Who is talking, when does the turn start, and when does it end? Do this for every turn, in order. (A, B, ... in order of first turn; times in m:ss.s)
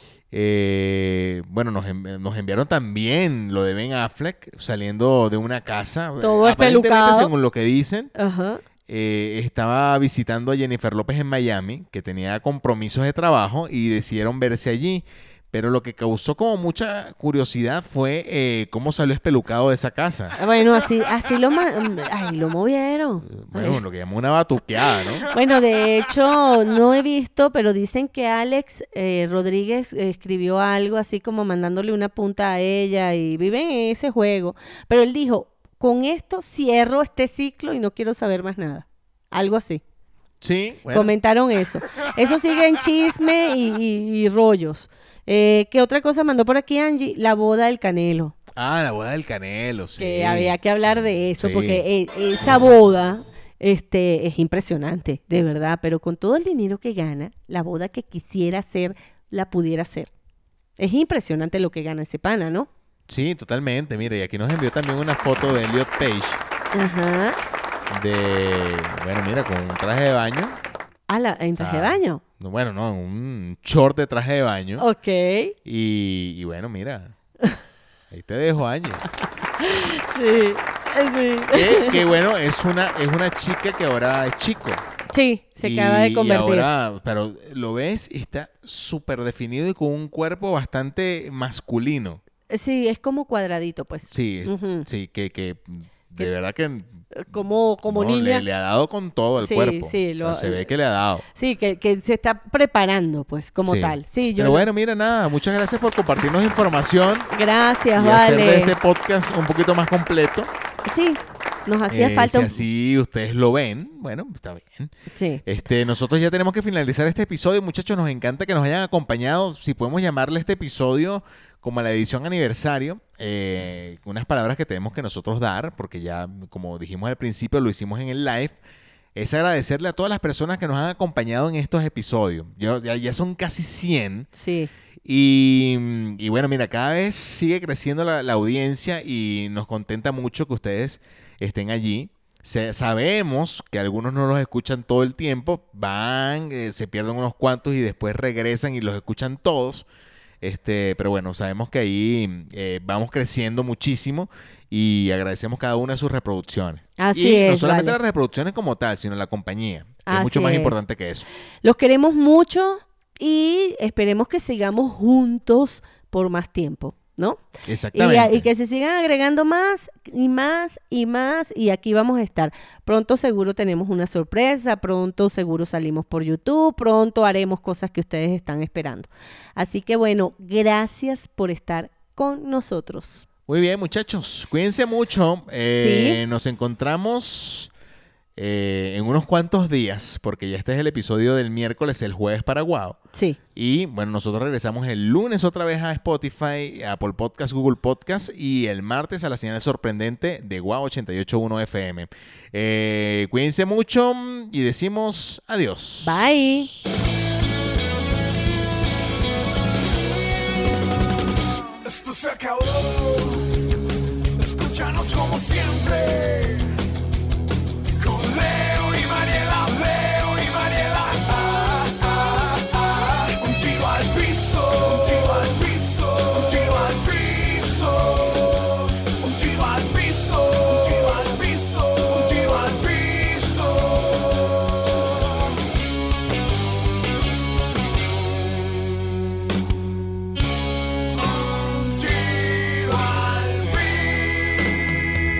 0:00.3-0:08.1 A
0:06.2-0:07.3 B
0:08.1-0:08.6 B
0:08.9-0:20.4 A
0:20.3-0:23.8 B
0:23.3-0:25.3 A
0:25.3-0:39.8 B
0:40.4-0:41.1 A
0:40.9-0:48.3 B
0:48.5-0:50.6 A
0:50.0-1:00.1 B
0:51.4-0:51.8 A
1:00.8-1:02.7 B
1:03.1-1:06.4 A
1:06.7-1:07.4 B
1:07.9-1:10.6 A
1:11.1-1:12.2 B
1:11.6-1:14.8 A
1:14.8-1:15.5 B
1:15.6-1:17.1 A
1:18.1-1:19.0 A
1:19.6-1:22.0 B
1:21.5-1:24.8 A
1:25.1-1:26.7 B
1:25.6-1:32.2 A
1:32.5-1:34.9 B
1:34.1-1:37.0 A
1:37.1-1:38.4 B
1:37.9-1:41.2 A
1:39.4-1:40.7 B
1:41.3-1:44.7 B
1:43.6-1:47.3 A
1:47.3-1:48.7 B
1:47.9-1:50.5 A
1:50.8-1:52.6 B
1:51.9-1:54.9 A
1:55.1-1:55.4 B
1:55.4-2:08.6 A
2:09.1-2:14.3 A
2:14.3-2:14.7 B
2:15.0-2:29.9 A
2:30.4-2:41.2 A
2:37.0-2:38.0 B
2:40.0-2:40.8 B
2:41.6-3:03.2 B
2:47.6-2:48.5 A
3:03.5-3:07.7 A
3:05.8-3:06.2 B
3:08.4-3:13.0 A
3:13.1-3:13.4 B
3:13.5-3:26.3 A
3:26.0-3:26.7 B
3:31.8-3:33.5 C
3:34.3-3:36.7 C
3:38.0-3:54.8 C
4:01.2-4:04.4 C